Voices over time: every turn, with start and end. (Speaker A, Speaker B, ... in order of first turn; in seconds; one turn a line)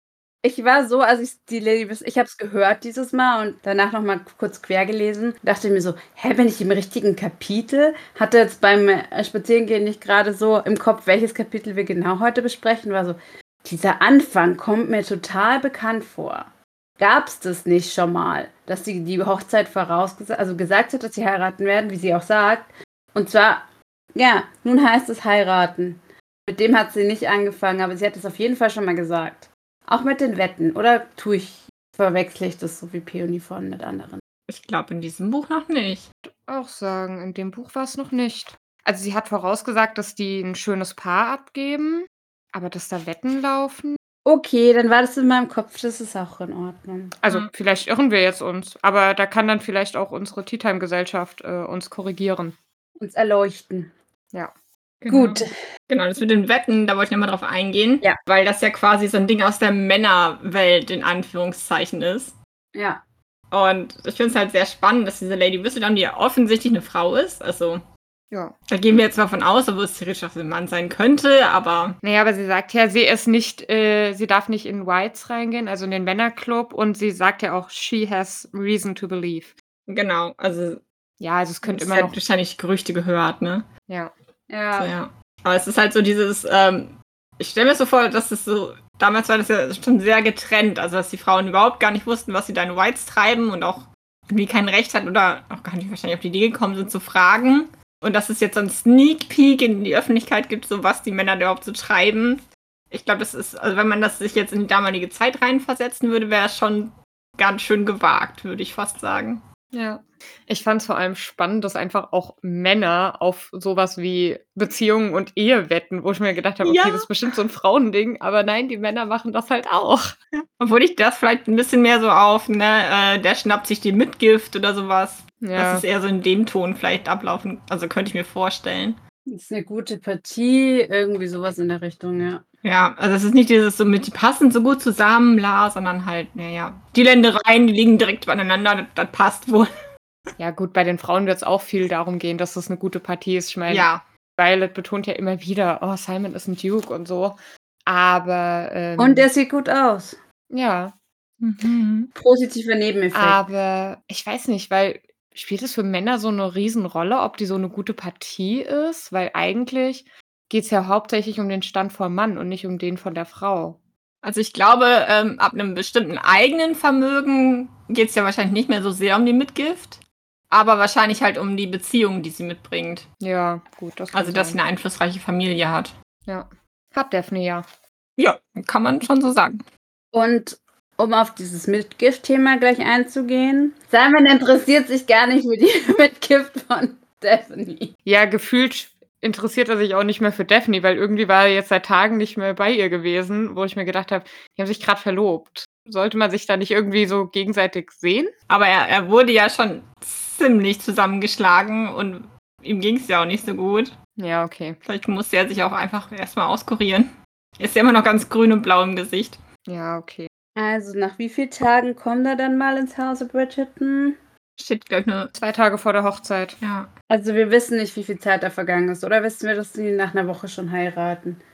Speaker A: 0.4-34.2
Speaker B: 34.5-36.1
Speaker C: 36.3-44.0
Speaker A: 44.2-47.1
Speaker C: 47.2-52.5
Speaker A: 53.0-53.9
Speaker B: 55.0-62.3
Speaker A: 55.1-55.5
Speaker A: 62.7-63.0
Speaker B: 63.5-67.8
Speaker B: 68.7-72.0
Speaker C: 72.0-79.5
Speaker B: 79.9-80.8
Speaker C: 81.2-82.2
Speaker B: 81.6-83.7
Speaker A: 84.5-84.9
Speaker B: 84.8-109.4
Speaker C: 109.7-120.2
Speaker B: 116.6-117.1
Speaker B: 120.4-129.0
Speaker C: 125.4-125.8
Speaker A: 129.3-132.4
Speaker B: 132.6-139.7
Speaker C: 140.4-149.2
Speaker B: 143.7-144.0
Speaker A: 149.0-150.2
Speaker C: 150.5-150.9
Speaker B: 151.4-152.1
Speaker A: 152.1-153.4
Speaker C: 153.1-163.8
Speaker B: 164.2-170.0
Speaker B: 170.5-173.1
Speaker C: 173.2-174.6
Speaker B: 174.1-175.9
Speaker C: 176.3-177.6
Speaker B: 178.2-179.6
Speaker A: 180.1-187.9
Speaker C: 188.1-198.3
Speaker B: 198.5-203.9
Speaker C: 204.2-204.8
Speaker B: 204.8-209.4
Speaker C: 209.7-210.3
Speaker A: 210.5-214.2
Speaker B: 214.6-215.3
Speaker C: 215.3-216.6
Speaker B: 216.6-216.9
Speaker A: 217.1-221.4